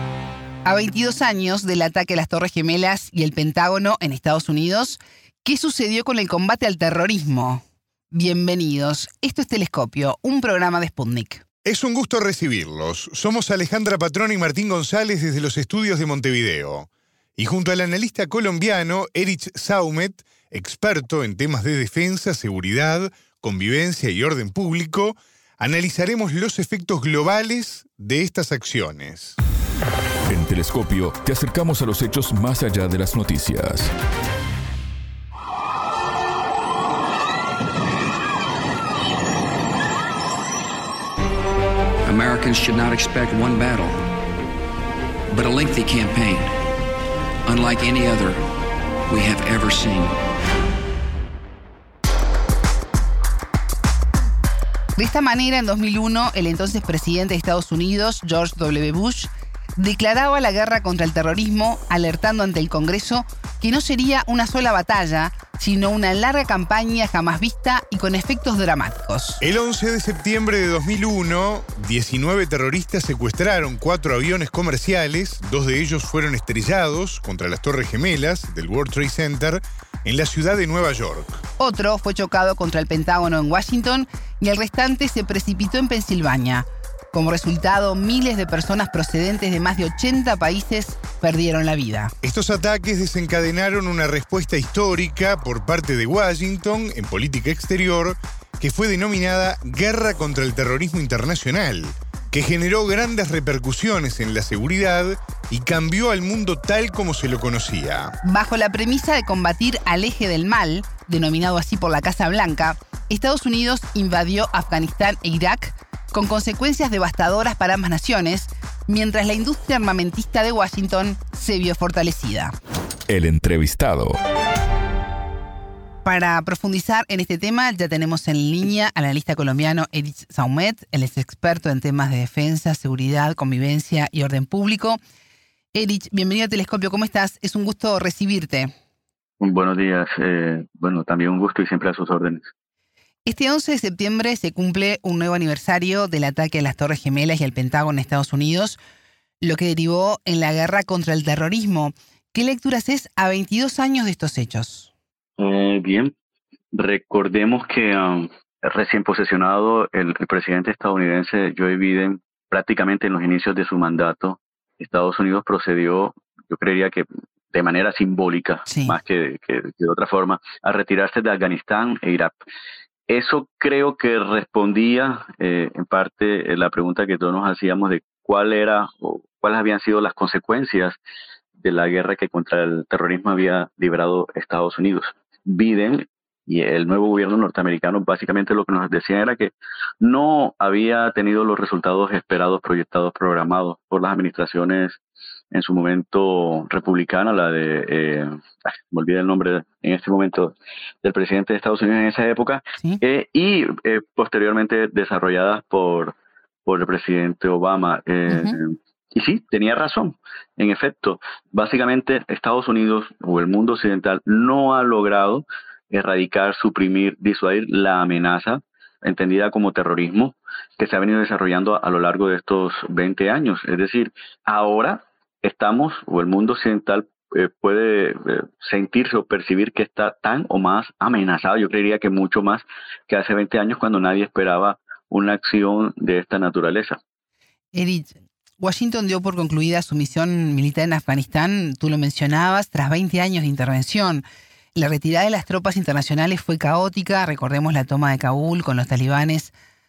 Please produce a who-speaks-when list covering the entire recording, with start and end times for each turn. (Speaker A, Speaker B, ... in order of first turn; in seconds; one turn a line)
Speaker A: 0.6-11.4
Speaker B: 11.6-29.3
Speaker C: 30.3-33.9
Speaker D: 42.0-44.0
Speaker D: 45.3-46.5
Speaker D: 47.5-48.4
Speaker D: 49.1-50.2
Speaker A: 55.0-69.4
Speaker B: 69.4-81.4
Speaker A: 81.6-92.1
Speaker B: 92.2-108.2
Speaker A: 108.2-122.5
Speaker C: 123.1-124.2
Speaker A: 126.0-135.0
Speaker A: 135.7-138.7
Speaker E: 139.4-142.5
Speaker A: 143.2-148.8
Speaker A: 149.4-154.9
Speaker E: 155.4-156.1
Speaker E: 156.7-172.3
Speaker A: 168.7-168.9
Speaker E: 173.1-181.0
Speaker E: 181.6-195.0
Speaker E: 195.5-206.1
Speaker E: 206.7-237.0
Speaker A: 208.3-208.6
Speaker A: 237.7-244.2
Speaker A: 244.7-249.5